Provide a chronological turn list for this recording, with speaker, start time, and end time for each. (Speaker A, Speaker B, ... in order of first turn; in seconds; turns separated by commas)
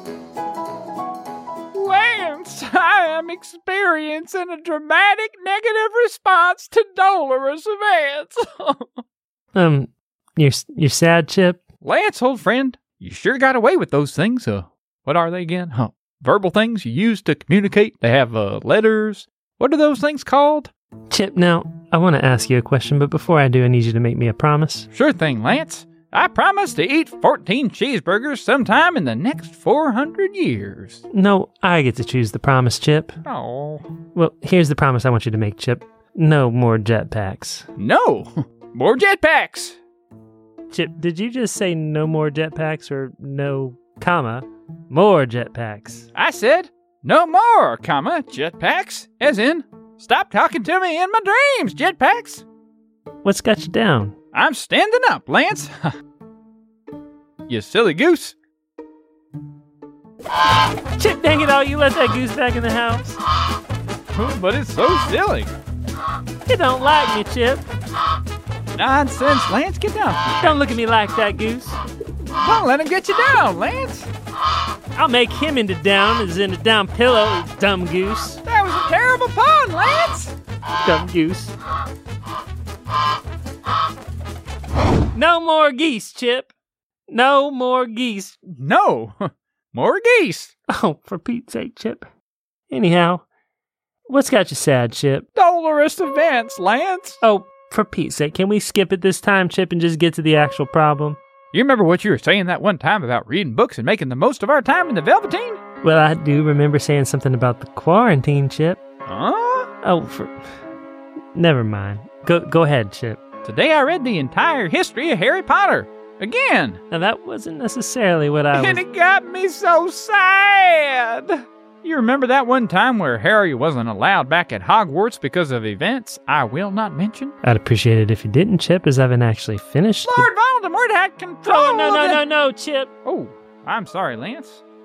Speaker A: 1.7-9.0, Speaker B: 9.5-11.6, Speaker A: 11.8-20.7, Speaker B: 21.1-24.9, Speaker A: 24.9-31.0, Speaker B: 31.1-33.1, Speaker A: 33.2-33.9, Speaker B: 34.1-37.7, Speaker A: 37.8-39.8, Speaker B: 40.7-46.1, Speaker A: 46.1-52.4, Speaker B: 53.2-54.1, Speaker A: 54.3-55.9, Speaker A: 57.5-58.4, Speaker B: 60.9-63.2, Speaker A: 64.1-65.5, Speaker B: 66.5-67.7, Speaker A: 68.7-70.6, Speaker B: 70.4-71.8, Speaker A: 72.4-74.1, Speaker B: 74.9-78.4, Speaker A: 78.4-80.3, Speaker B: 80.8-81.5, Speaker B: 85.1-86.5, Speaker B: 87.1-88.4, Speaker A: 88.6-90.5, Speaker B: 90.7-92.1, Speaker B: 92.7-93.2, Speaker B: 94.1-95.2, Speaker A: 95.3-97.2, Speaker B: 97.2-101.2, Speaker A: 101.5-105.6, Speaker B: 105.8-108.8, Speaker A: 109.1-109.7, Speaker B: 109.8-110.3, Speaker B: 111.3-113.2, Speaker A: 113.4-116.8, Speaker B: 116.9-118.8, Speaker A: 118.5-127.4, Speaker B: 127.4-130.3, Speaker A: 130.0-132.2, Speaker B: 131.4-132.9, Speaker A: 133.0-134.6